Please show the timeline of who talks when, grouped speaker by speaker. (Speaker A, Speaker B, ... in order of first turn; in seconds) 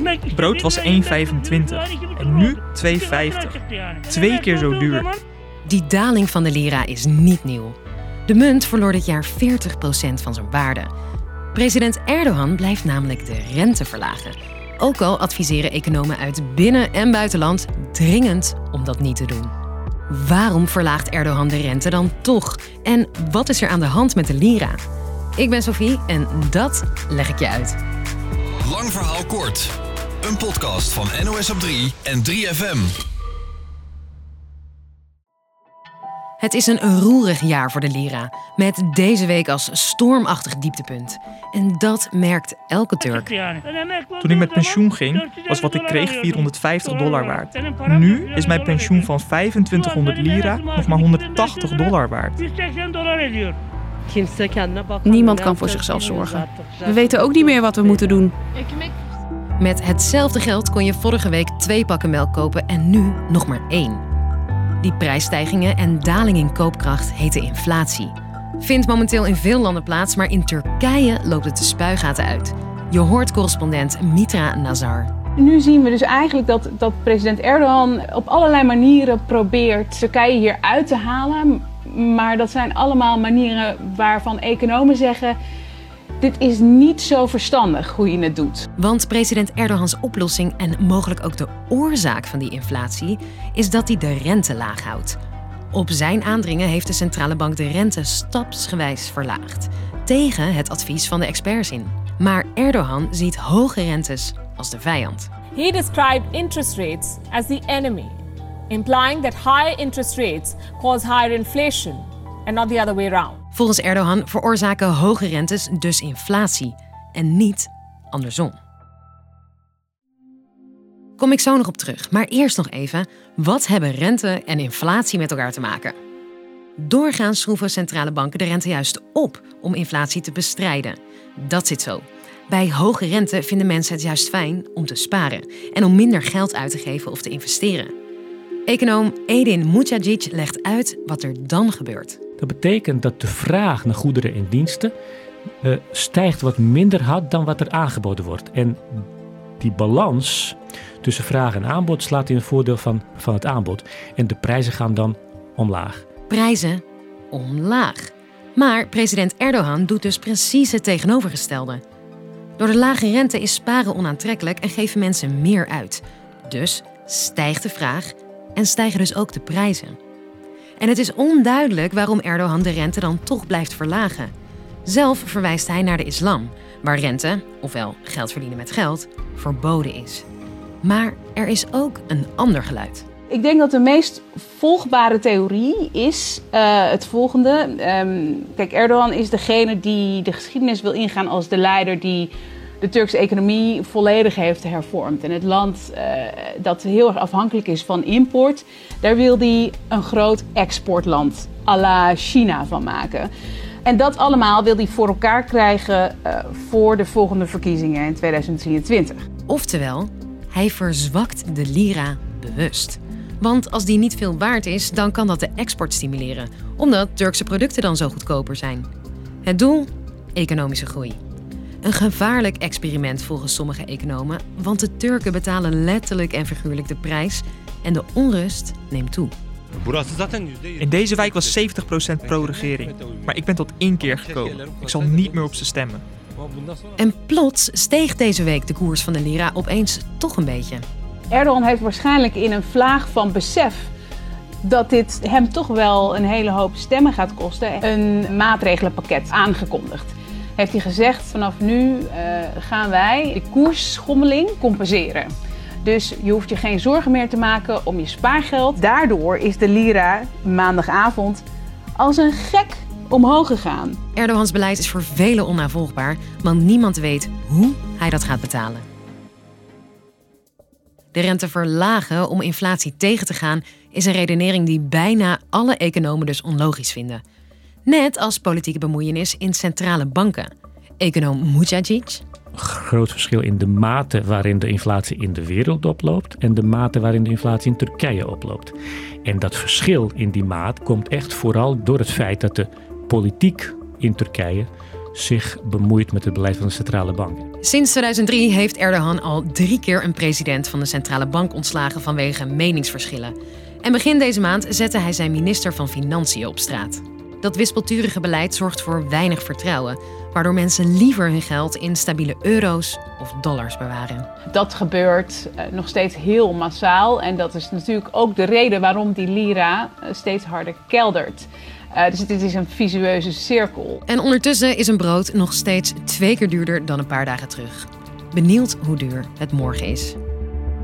Speaker A: 0.3-5.1, 44.2-52.4, 230.8-236.0
Speaker B: 5.7-10.9, 11.5-19.5, 20.1-24.8, 25.4-27.8, 36.4-43.3, 59.6-64.0, 64.8-75.1, 88.8-95.2, 95.7-105.3, 113.5-118.6, 121.2-126.0, 126.8-137.9, 138.7-142.2, 156.3-161.8, 162.6-170.0, 170.8-174.3, 174.8-180.2, 180.8-183.1, 209.5-218.9, 219.4-221.2, 221.8-229.3, 237.0-240.8, 264.1-268.8, 271.1-277.2, 277.9-280.5, 281.0-282.2, 297.6-314.3, 324.1-330.2
Speaker C: 28.6-33.0, 229.8-231.4, 232.3-233.2, 234.0-235.4, 236.4-236.8
Speaker D: 54.1-58.9
Speaker E: 75.4-85.3, 86.2-88.7, 183.3-203.3, 203.8-209.2, 241.3-243.9, 244.6-255.3, 255.8-261.4, 262.0-264.0, 314.5-324.0
Speaker F: 105.5-108.2, 108.7-113.4
Speaker G: 142.4-144.9, 145.6-149.1, 149.6-156.1, 282.6-297.5